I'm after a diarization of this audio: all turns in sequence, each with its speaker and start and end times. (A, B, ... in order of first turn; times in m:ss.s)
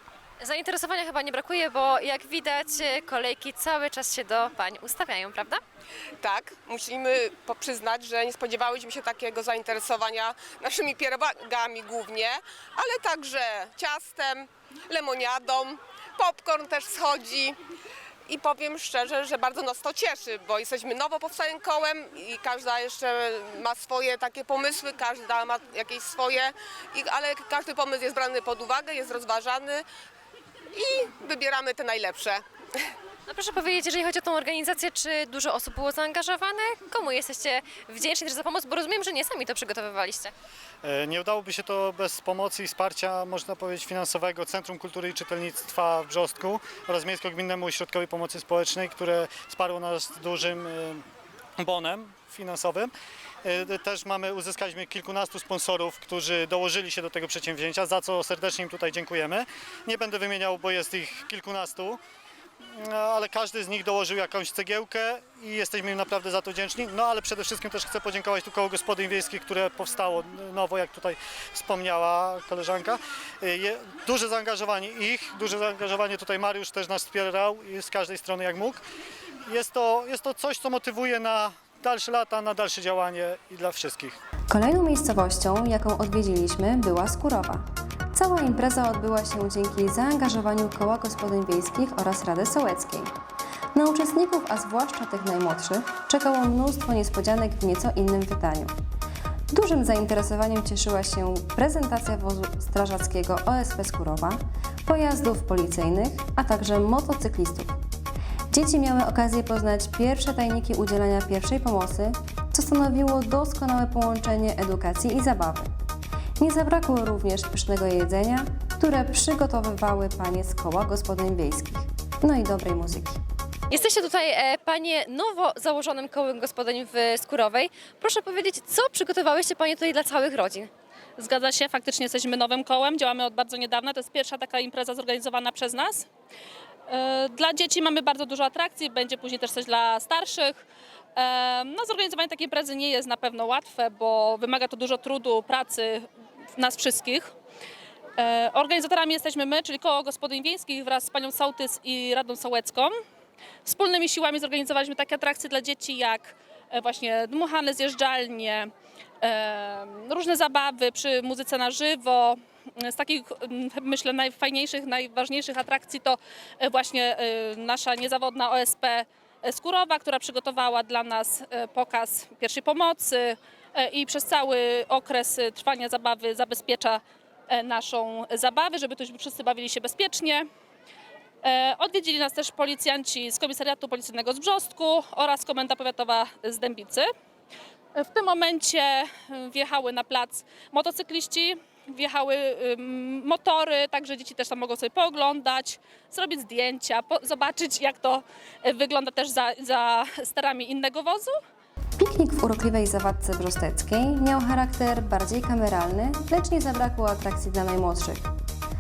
0:00.4-0:05.6 A
0:06.2-0:17.6 B
0:18.3-0:29.8 B
0:30.7-0:32.4 B
0:33.3-0:40.3 A
0:40.8-0:51.0 C
0:51.6-0:52.9 C
0:53.4-1:02.0 C
1:02.8-1:18.8 C
1:19.5-1:24.2 C
1:24.5-1:33.1 D
1:33.8-1:38.7 D
1:39.5-1:47.8 D
1:48.5-1:55.7 D
1:56.4-2:03.2 D
2:03.7-2:10.7 A
2:11.2-2:16.1 E
2:16.9-2:20.6 E
2:21.2-2:27.3 E
2:28.2-2:33.0 E
2:33.6-3:00.5 E
3:01.4-3:07.1 E
3:08.0-3:21.4 E
3:22.0-3:28.3 D